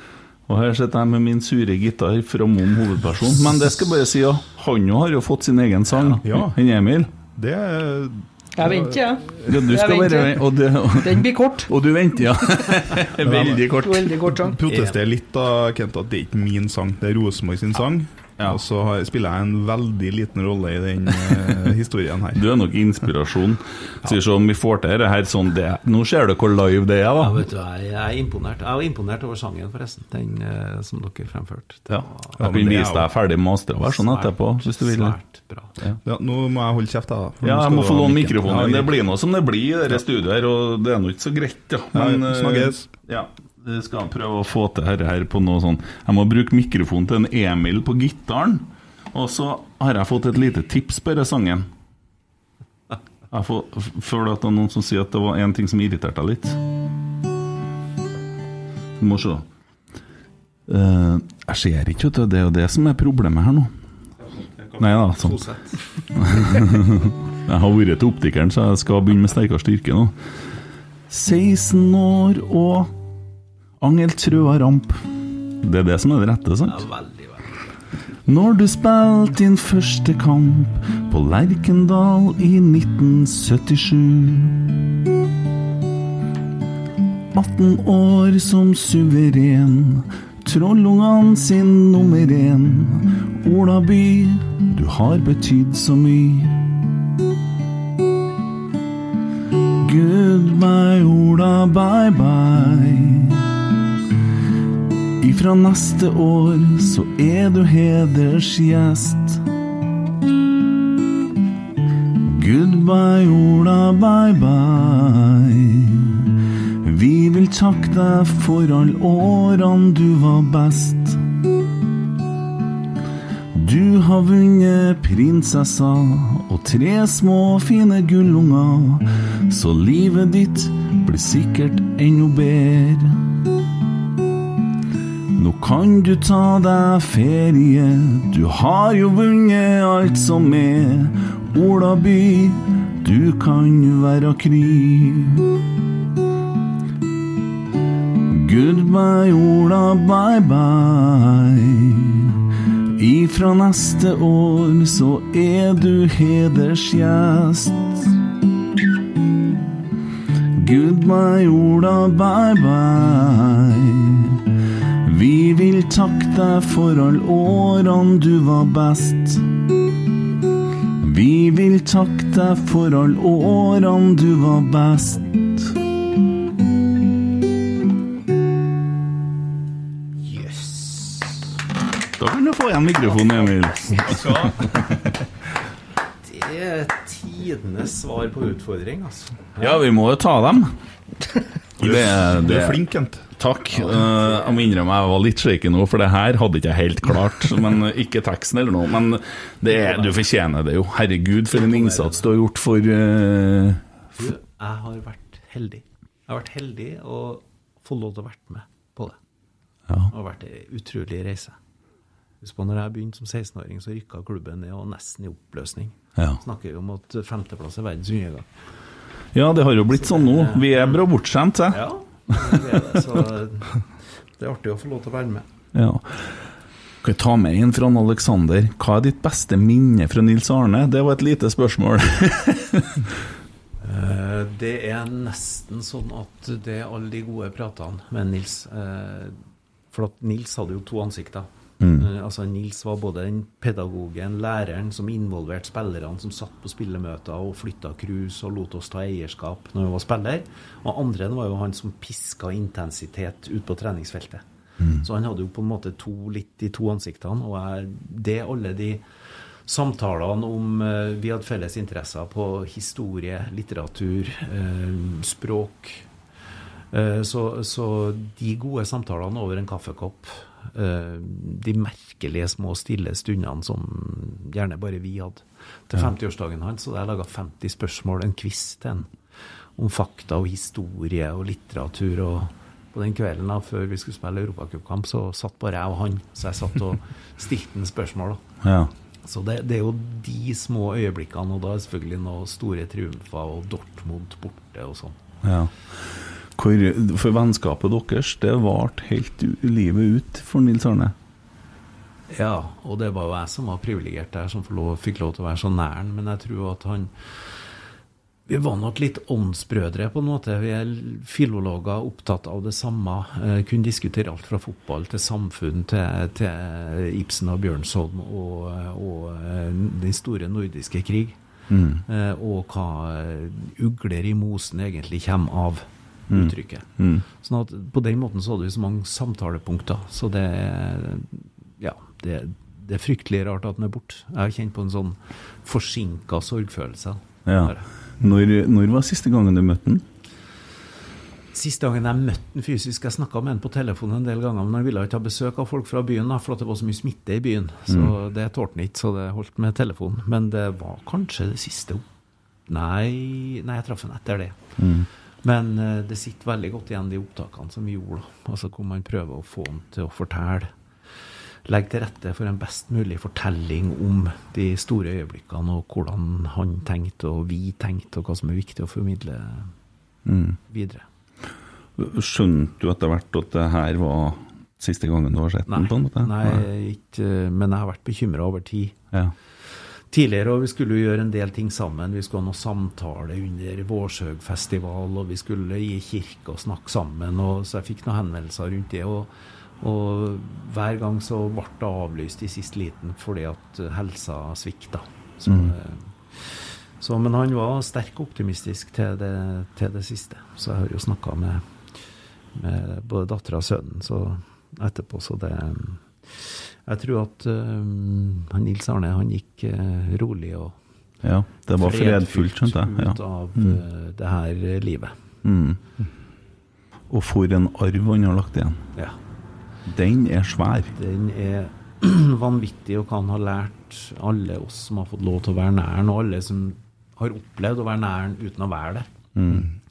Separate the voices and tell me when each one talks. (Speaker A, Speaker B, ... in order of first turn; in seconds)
Speaker A: 0.5-7.1, 9.4-14.4, 21.3-21.6, 22.3-27.5, 31.9-35.2, 37.4-51.7, 53.3-56.6, 59.0-59.5, 60.7-63.7, 64.8-65.4, 66.2-70.1, 71.1-73.0, 73.8-76.9, 78.3-84.8, 87.3-96.7, 99.7-103.6, 105.2-109.5, 112.2-121.3, 123.5-133.3, 135.3-145.6, 148.2-152.4, 153.0-158.2, 160.5-169.6, 171.0-175.8, 182.2-184.4, 189.6-190.7, 191.8-192.8, 193.4-204.2, 219.3-222.6, 225.7-226.3, 227.0-233.1, 241.8-242.1, 288.6-288.9, 295.4-295.7, 296.6-301.1, 321.7-322.0, 326.3-327.2, 337.5-340.1, 347.9-348.1, 354.8-355.1, 370.3-370.6, 372.0-376.6, 395.5-395.7, 411.2-413.8, 415.4-415.8, 417.1-418.8, 419.9-420.9, 429.4-429.7
Speaker B: 5.9-6.2, 14.7-15.0, 27.2-32.7, 33.9-35.8, 65.0-66.0, 76.7-77.5, 180.2-181.5, 183.0-184.8, 186.2-189.8, 201.5-202.3, 204.2-209.2, 210.1-211.6, 212.4-218.5, 219.9-221.0, 221.7-223.9, 224.4-225.5, 233.8-239.4, 239.9-254.4, 255.0-259.0, 259.7-266.1, 266.9-279.1, 279.8-288.4, 289.2-295.2, 302.3-307.6, 308.5-321.4, 322.1-337.9, 341.5-352.1, 352.7-354.6, 355.4-360.7, 361.7-369.7, 370.7-371.1, 375.7-379.0, 380.1-401.7, 402.6-410.8, 411.8-415.1, 420.9-429.1
Speaker C: 6.2-6.6, 7.2-9.0, 13.2-13.7, 14.5-22.5, 32.4-33.1, 36.0-38.9, 41.9-42.9, 191.8-193.3
Speaker D: 8.6-11.7, 13.2-14.6